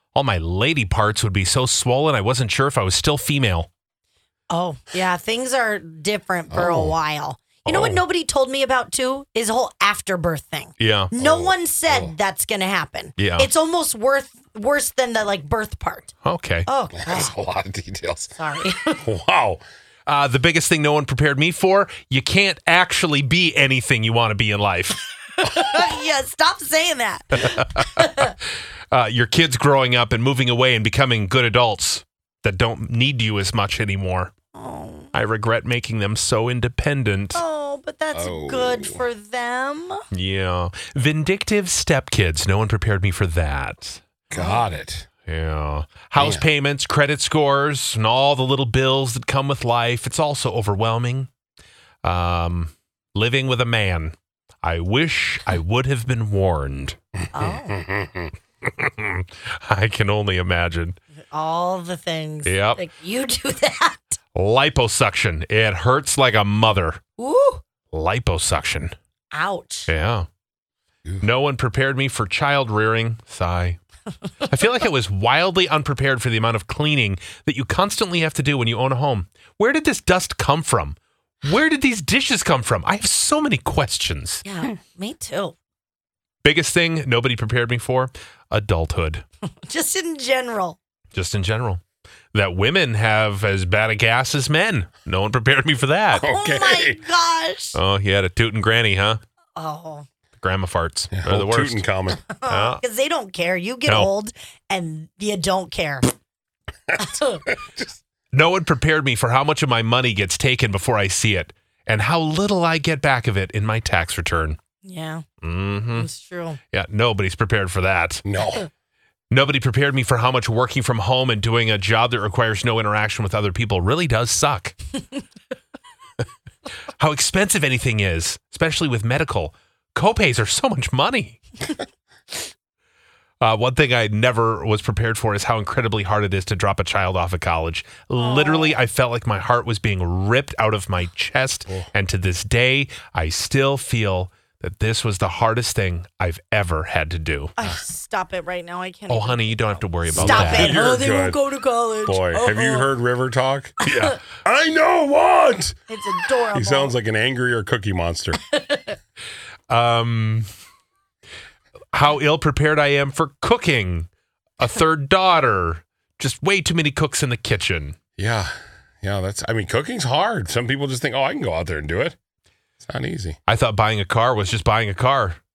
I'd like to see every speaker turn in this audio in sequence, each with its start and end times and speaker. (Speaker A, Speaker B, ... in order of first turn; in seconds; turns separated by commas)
Speaker A: 0.1-3.7, Speaker B: 4.5-16.1, Speaker C: 6.5-7.0, Speaker A: 7.7-8.0, Speaker A: 10.8-11.2, Speaker C: 11.2-12.1, Speaker A: 13.2-13.5, Speaker A: 16.2-16.7, Speaker B: 16.7-17.3, Speaker C: 17.0-18.3, Speaker B: 18.4-19.0, Speaker C: 19.0-19.6, Speaker A: 20.1-25.5, Speaker B: 25.4-28.3, Speaker A: 27.4-28.3, Speaker A: 28.9-34.3, Speaker B: 34.5-35.1, Speaker A: 35.1-37.4, Speaker B: 37.3-40.0, Speaker C: 38.1-39.0, Speaker A: 40.1-44.0, Speaker C: 44.3-45.1, Speaker B: 44.3-44.6, Speaker A: 45.2-51.3, Speaker C: 46.2-46.5, Speaker A: 52.0-57.0, Speaker B: 57.3-57.8, Speaker A: 58.6-61.0, Speaker B: 61.3-64.2, Speaker A: 62.4-62.8, Speaker A: 64.3-67.0, Speaker B: 67.2-67.6, Speaker A: 67.9-68.9, Speaker B: 69.3-69.9, Speaker A: 69.9-70.3, Speaker A: 71.2-73.8, Speaker A: 74.5-84.4, Speaker B: 84.4-85.5, Speaker A: 86.4-89.2, Speaker B: 89.7-90.8, Speaker A: 91.1-91.8, Speaker A: 92.3-96.3, Speaker B: 96.1-97.8, Speaker C: 96.2-97.0, Speaker A: 97.8-99.2, Speaker B: 99.6-100.1, Speaker A: 100.4-101.9, Speaker C: 101.1-102.3, Speaker B: 102.3-106.1, Speaker A: 102.4-102.8, Speaker B: 107.0-107.4, Speaker A: 108.3-114.6, Speaker B: 114.8-115.2, Speaker A: 115.4-116.1, Speaker B: 116.0-116.6, Speaker A: 116.7-118.2, Speaker C: 118.3-118.6, Speaker A: 119.3-124.8, Speaker A: 127.0-131.4, Speaker A: 133.4-147.6, Speaker B: 138.2-138.8, Speaker B: 147.6-152.9, Speaker A: 149.1-150.8, Speaker C: 150.1-151.4, Speaker C: 152.1-155.8, Speaker B: 153.8-154.2, Speaker B: 155.9-156.9, Speaker C: 156.6-158.4, Speaker B: 158.5-158.9, Speaker A: 159.7-160.5, Speaker A: 161.9-168.0, Speaker C: 168.2-172.2, Speaker C: 172.8-173.4, Speaker A: 173.5-175.4